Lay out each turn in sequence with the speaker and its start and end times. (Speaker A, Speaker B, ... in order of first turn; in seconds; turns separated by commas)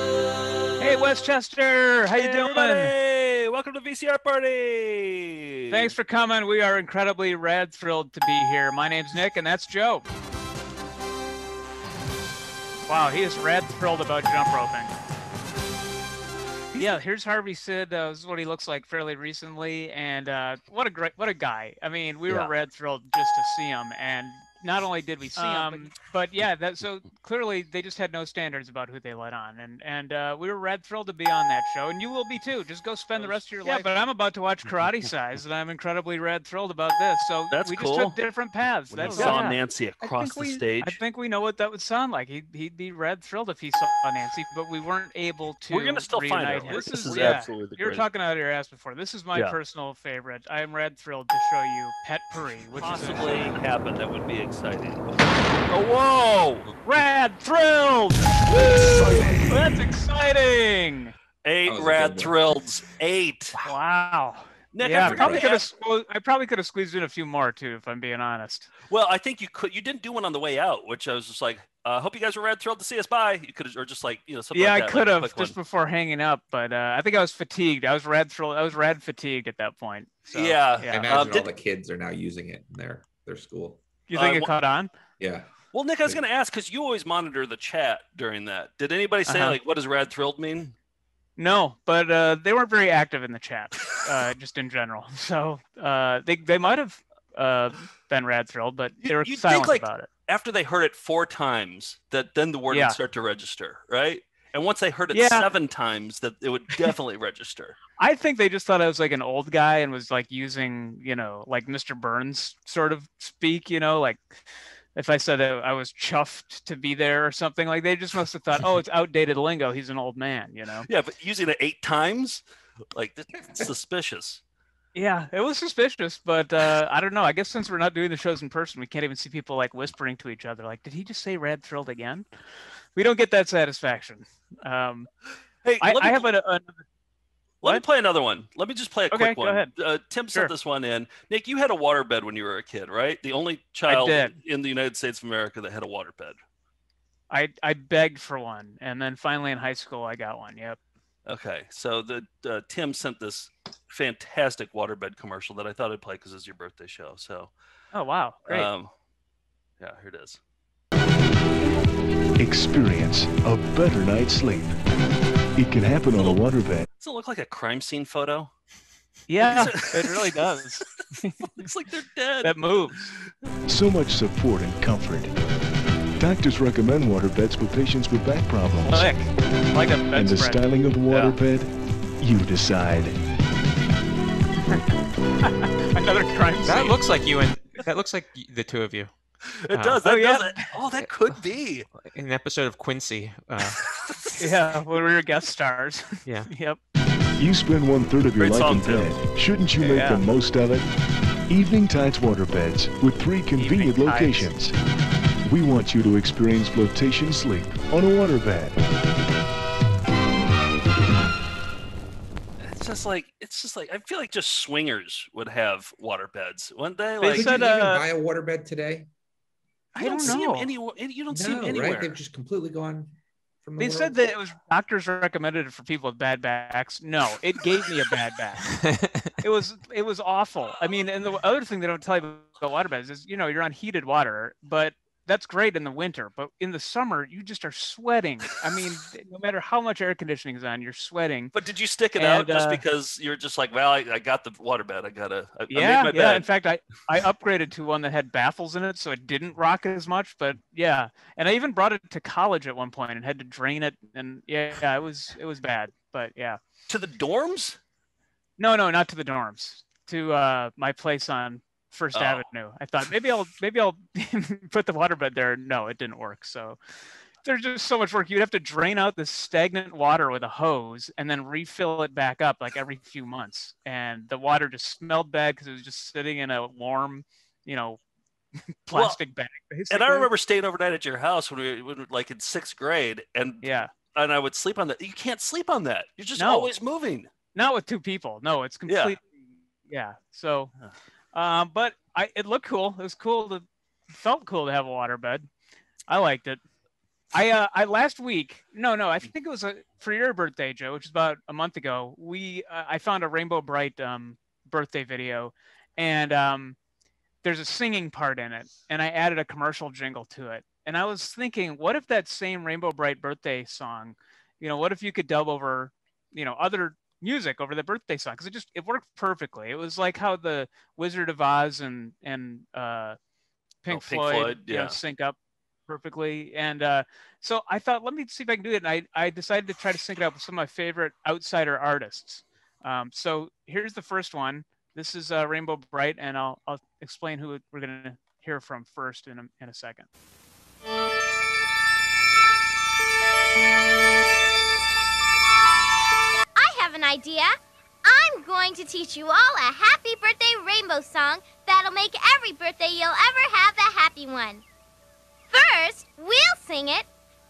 Speaker A: 0.8-2.9, Speaker B: 2.1-5.9, Speaker A: 5.7-10.1, Speaker A: 12.9-14.9, Speaker A: 16.7-53.6, Speaker B: 25.4-25.8, Speaker B: 33.1-33.8, Speaker B: 37.5-38.2, Speaker B: 38.9-41.0, Speaker B: 45.7-48.0, Speaker B: 52.7-55.1, Speaker B: 55.7-56.7, Speaker A: 56.8-58.6, Speaker B: 58.6-59.5, Speaker A: 59.5-61.1, Speaker B: 61.4-63.6, Speaker C: 61.7-62.3, Speaker A: 63.6-68.7, Speaker B: 64.7-65.7, Speaker D: 65.0-65.4, Speaker B: 68.9-75.5, Speaker A: 74.5-81.0, Speaker B: 80.3-81.5, Speaker C: 80.9-83.8, Speaker A: 84.1-84.9, Speaker B: 84.1-84.5, Speaker C: 85.2-85.5, Speaker B: 85.7-90.7, Speaker A: 89.3-89.6, Speaker A: 91.4-100.1, Speaker B: 99.0-107.8, Speaker A: 102.7-103.0, Speaker A: 105.1-105.5, Speaker A: 108.0-114.2, Speaker A: 114.9-120.9, Speaker B: 120.9-124.4, Speaker A: 124.9-132.3, Speaker A: 132.9-135.1, Speaker B: 135.6-136.2, Speaker A: 135.8-136.8, Speaker B: 137.6-146.4, Speaker A: 139.1-139.7, Speaker A: 143.9-144.3, Speaker A: 147.3-150.8, Speaker B: 151.2-157.5, Speaker A: 157.9-158.7, Speaker B: 158.5-158.9, Speaker B: 159.8-160.4, Speaker E: 162.4-164.8, Speaker E: 165.6-166.8, Speaker B: 166.1-166.4, Speaker B: 167.0-168.5, Speaker A: 169.3-171.5, Speaker B: 169.4-170.3, Speaker B: 171.6-172.7, Speaker A: 172.4-173.1, Speaker E: 173.7-175.3, Speaker E: 176.2-179.2, Speaker A: 178.8-181.2, Speaker E: 180.1-183.2, Speaker A: 185.4-187.0, Speaker D: 186.6-189.1, Speaker B: 189.6-191.8, Speaker D: 189.7-190.0, Speaker A: 190.0-190.7, Speaker D: 191.9-193.8, Speaker A: 194.4-196.8, Speaker E: 197.4-200.9, Speaker B: 198.4-199.2, Speaker A: 199.8-200.2, Speaker E: 201.5-204.7, Speaker A: 203.6-204.5, Speaker E: 205.4-208.8, Speaker B: 212.6-217.7, Speaker A: 217.2-218.0, Speaker C: 217.3-219.1, Speaker A: 219.9-220.7, Speaker B: 220.0-222.2, Speaker C: 221.3-224.2, Speaker A: 223.8-228.7, Speaker D: 228.7-229.3, Speaker A: 229.4-241.5, Speaker B: 241.5-246.4, Speaker A: 242.2-242.8, Speaker A: 245.7-256.6, Speaker B: 256.9-257.8, Speaker A: 258.6-266.8, Speaker B: 262.1-262.4, Speaker A: 267.4-278.0, Speaker A: 278.9-280.3, Speaker B: 278.9-279.2, Speaker B: 279.9-287.3, Speaker A: 283.6-283.9, Speaker A: 286.4-286.7, Speaker A: 287.5-290.7, Speaker B: 288.9-289.1, Speaker A: 291.3-295.5, Speaker A: 296.1-296.6, Speaker A: 297.3-306.8, Speaker A: 307.4-323.2, Speaker A: 323.8-325.4, Speaker B: 323.9-325.0, Speaker A: 325.9-340.1, Speaker F: 346.6-354.6, Speaker F: 355.5-357.1